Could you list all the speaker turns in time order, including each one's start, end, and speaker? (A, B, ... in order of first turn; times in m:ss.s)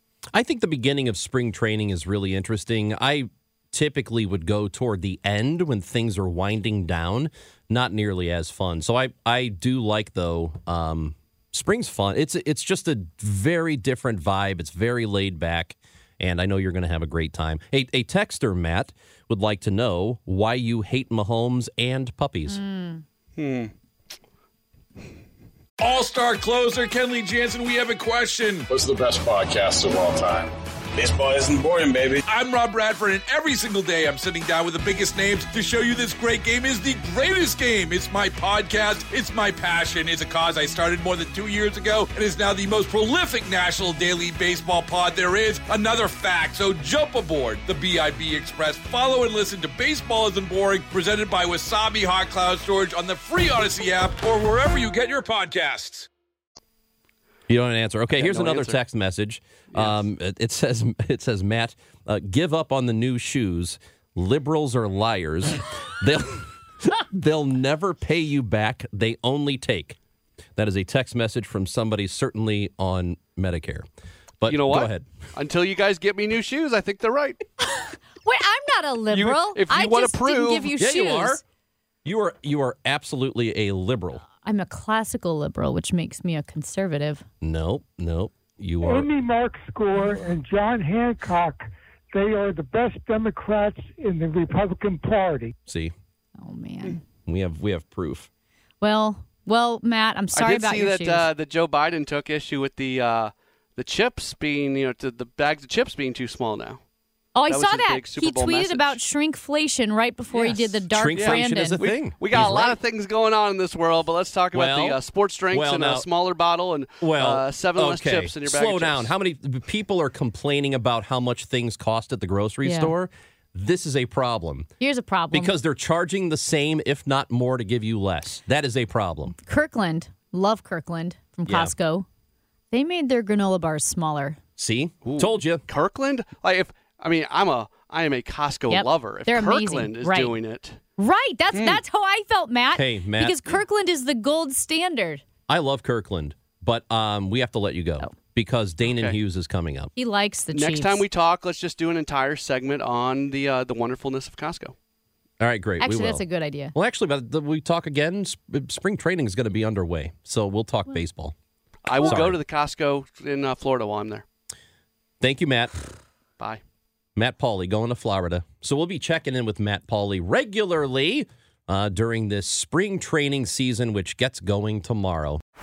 0:00.3-0:22.6 A
0:22.5-0:23.0 B
0:23.4-0:23.7 C
0:25.8-0:28.7 D
0:28.7-0:32.2 E
0:32.2-0:56.1 D
0:57.5-1:10.0 A
0:58.2-0:58.8 C
0:59.7-1:00.0 C
1:10.6-1:13.9 A
1:14.4-1:15.1 A
1:14.5-1:17.4 C
1:17.6-1:21.4 B
1:19.1-1:20.8 C
1:20.8-1:21.4 A
1:22.0-1:24.2 A
1:24.4-1:27.2 B
1:27.4-1:29.1 A
1:28.8-1:35.5 F
1:35.7-1:35.9 A
1:36.4-1:37.0 B
1:37.3-1:38.3 A
1:38.8-1:41.3 B
1:40.3-1:46.8 C
1:47.4-1:51.9 B
1:47.5-1:49.0 C
1:50.3-1:59.1 C
1:50.9-1:52.8 A
1:54.5-1:55.0 A
1:55.5-1:56.1 A
1:57.0-2:04.7 A
2:02.6-2:02.9 B
2:04.8-2:05.5 B
2:05.3-2:09.4 A
2:09.5-2:12.1 B
2:11.5-2:11.7 A
2:12.7-2:14.4 B
2:14.6-2:15.6 A
2:15.1-2:20.8 C
2:18.7-2:20.4 B
2:21.0-2:25.2 B
2:21.5-2:21.8 C
2:22.7-2:23.4 A
2:25.5-2:29.9 A
2:28.9-2:29.2 C
2:30.0-2:31.0 B
2:30.5-2:34.7 C
2:35.4-2:36.2 A
2:35.8-2:36.7 B
2:36.8-2:41.4 A
2:41.8-2:44.2 C
2:41.9-2:42.2 B
2:42.0-2:42.4 A
2:45.2-2:45.9 A
2:47.2-2:55.4 A